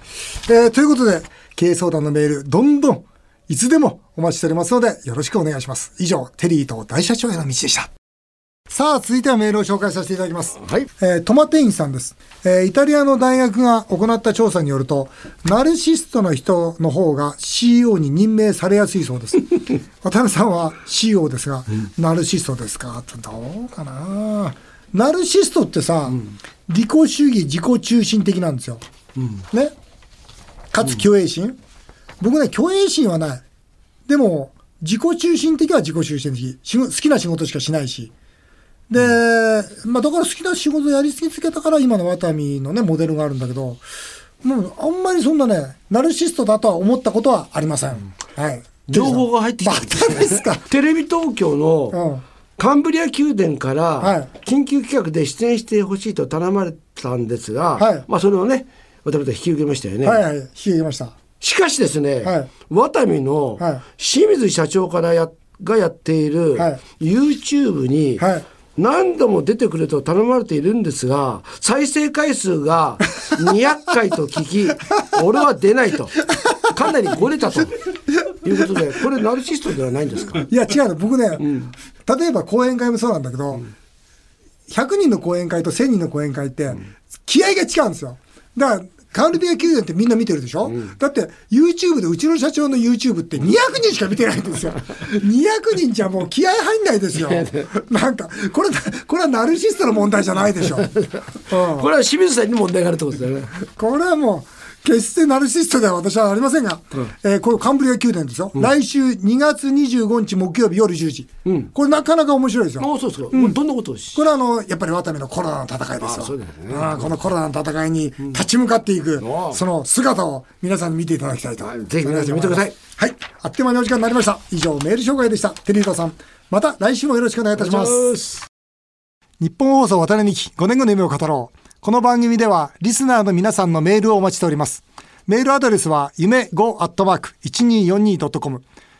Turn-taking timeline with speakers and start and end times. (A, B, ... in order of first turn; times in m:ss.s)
0:00.4-0:07.9 A
0:08.7-0:28.8 A
0:29.5-0:29.7 A
0:30.7-0:31.6 A
0:32.2-0:33.4 A
0:34.1-0:38.1 A
0:38.9-0:43.8 A
0:44.4-0:50.6 A
0:48.9-0:52.0 B
0:51.9-0:52.2 A
0:52.6-1:00.2 B
0:54.0-0:54.3 A
0:57.8-0:58.0 A
1:00.0-1:01.2 A
1:01.4-1:08.2 B
1:02.2-1:02.5 A
1:03.6-1:03.8 A
1:06.5-1:06.8 A
1:08.2-1:08.4 A
1:08.8-1:20.5 B
1:16.4-1:16.7 A
1:20.4-1:21.5 A
1:21.4-1:21.7 B
1:22.0-1:23.7 A
1:24.7-1:41.0 A
1:37.2-1:37.7 B
1:40.8-1:43.5 B
1:41.5-1:41.9 A
1:43.8-1:53.6 A
1:51.4-1:51.7 B
1:52.8-1:54.2 B
1:54.1-2:08.2 A
1:56.0-1:57.1 B
1:59.2-1:59.6 B
2:01.6-2:02.8 B
2:07.6-2:08.5 B
2:09.4-2:18.6 A